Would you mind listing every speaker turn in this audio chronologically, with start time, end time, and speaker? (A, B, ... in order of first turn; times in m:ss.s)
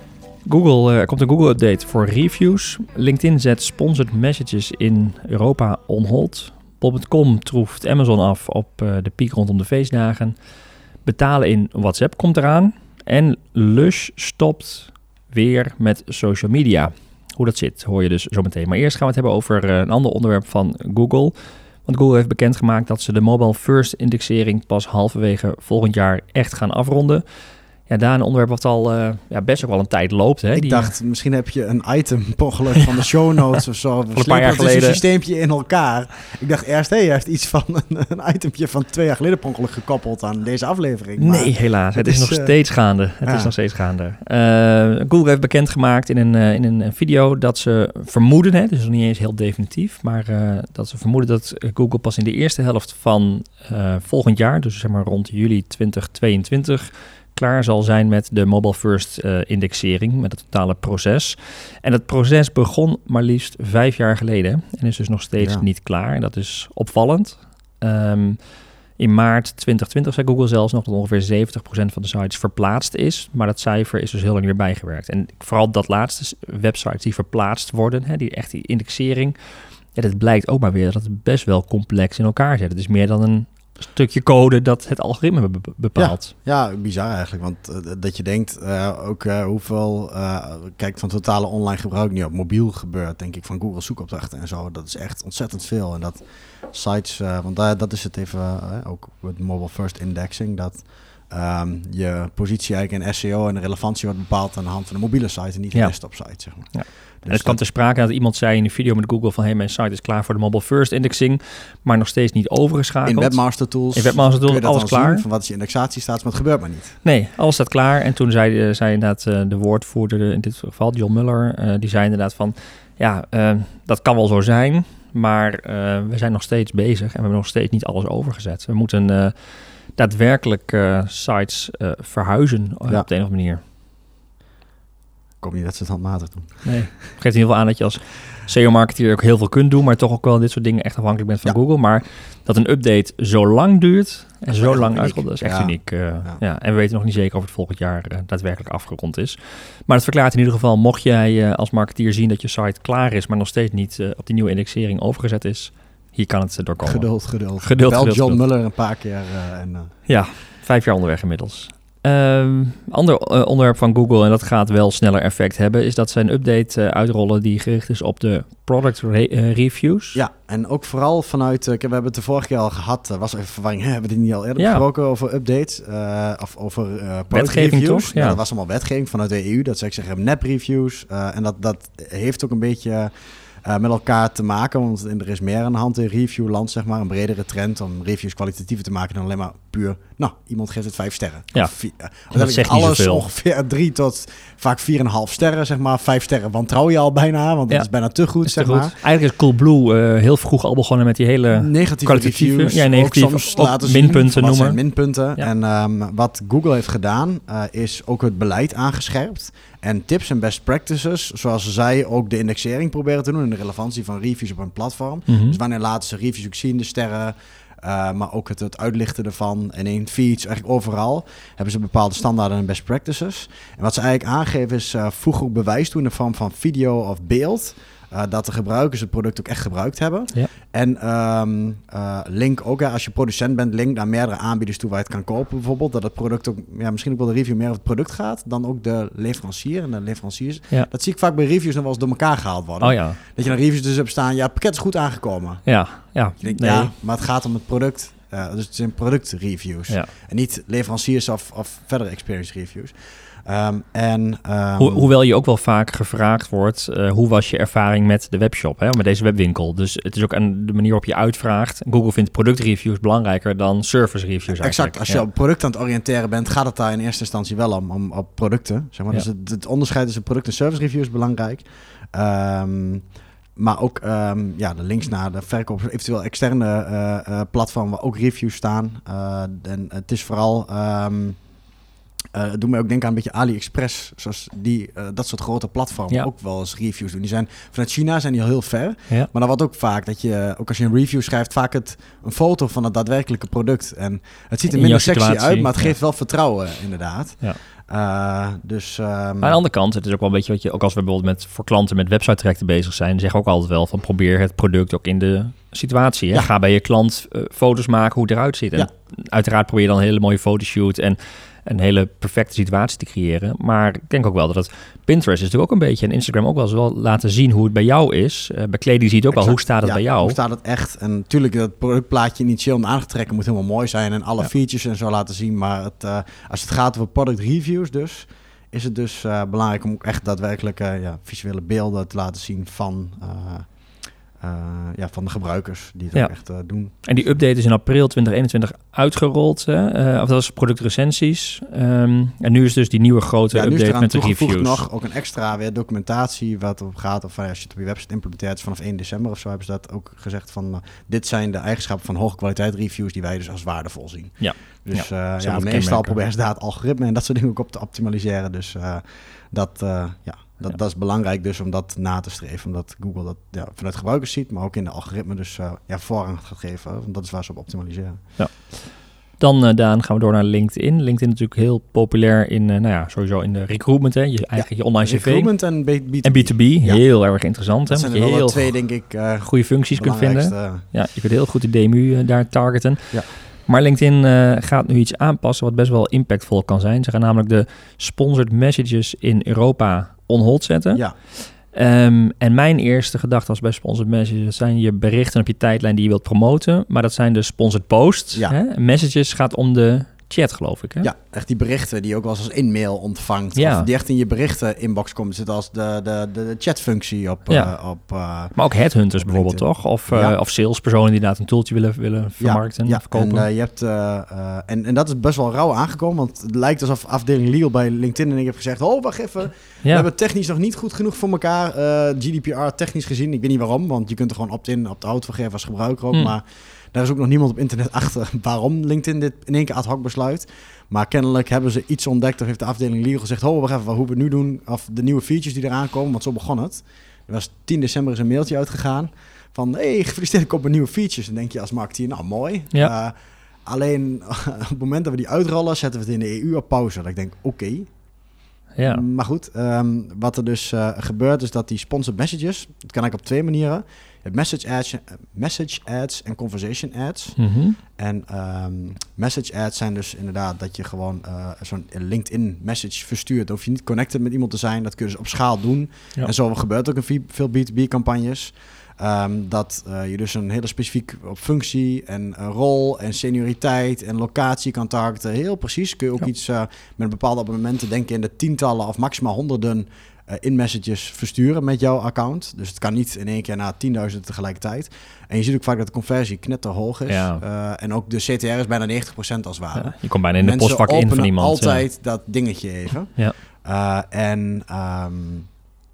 0:00.4-0:10.3 A
0:11.0-0:21.3 A
0:21.8-0:27.2 A
0:27.9-0:30.9 A
0:30.5-0:42.5 B
0:34.1-0:35.0 A
0:41.2-1:19.4 A
0:43.2-0:43.5 B
1:05.4-1:05.6 B
1:19.9-1:26.3 A
1:26.0-1:47.6 B
1:45.7-1:55.2 A
1:53.0-1:57.0 B
1:57.0-2:13.6 A
2:15.4-2:16.8 B
2:16.6-2:38.4 A
2:24.5-2:26.4 B
2:36.8-2:39.9 B
2:40.1-2:50.2 A
2:50.1-3:03.1 B
2:54.6-2:54.8 A
2:57.3-2:58.4 A
3:03.6-3:19.0 B
3:12.3-3:13.2 A
3:17.7-3:24.8 A
3:21.5-4:05.8 B
3:35.3-3:35.6 A
4:02.8-4:03.2 A
4:05.6-4:06.9 A
4:06.4-4:15.1 B
4:14.8-4:25.2 A
4:24.5-4:33.0 B
4:33.6-4:41.4 B
4:42.3-4:59.6 B
4:54.7-4:56.0 A
4:59.4-5:20.4 A
5:19.3-5:33.8 B
5:34.4-5:37.0 B
5:37.0-5:44.9 A
5:43.5-6:08.2 B
5:54.4-5:56.2 A
6:08.4-6:18.8 A
6:14.5-6:17.2 B
6:17.9-6:20.8 B
6:19.4-6:41.1 A
6:41.0-6:48.6 B
6:43.6-6:43.9 A
6:47.5-6:47.8 A
6:48.6-6:53.5 A
6:49.1-6:50.4 B
6:52.4-7:23.1 B
7:23.6-7:28.1 B
7:28.8-7:29.0 A
7:28.8-7:37.4 B
7:37.4-7:37.8 A
7:38.0-8:15.5 B
8:07.1-8:07.4 A
8:09.8-8:11.9 A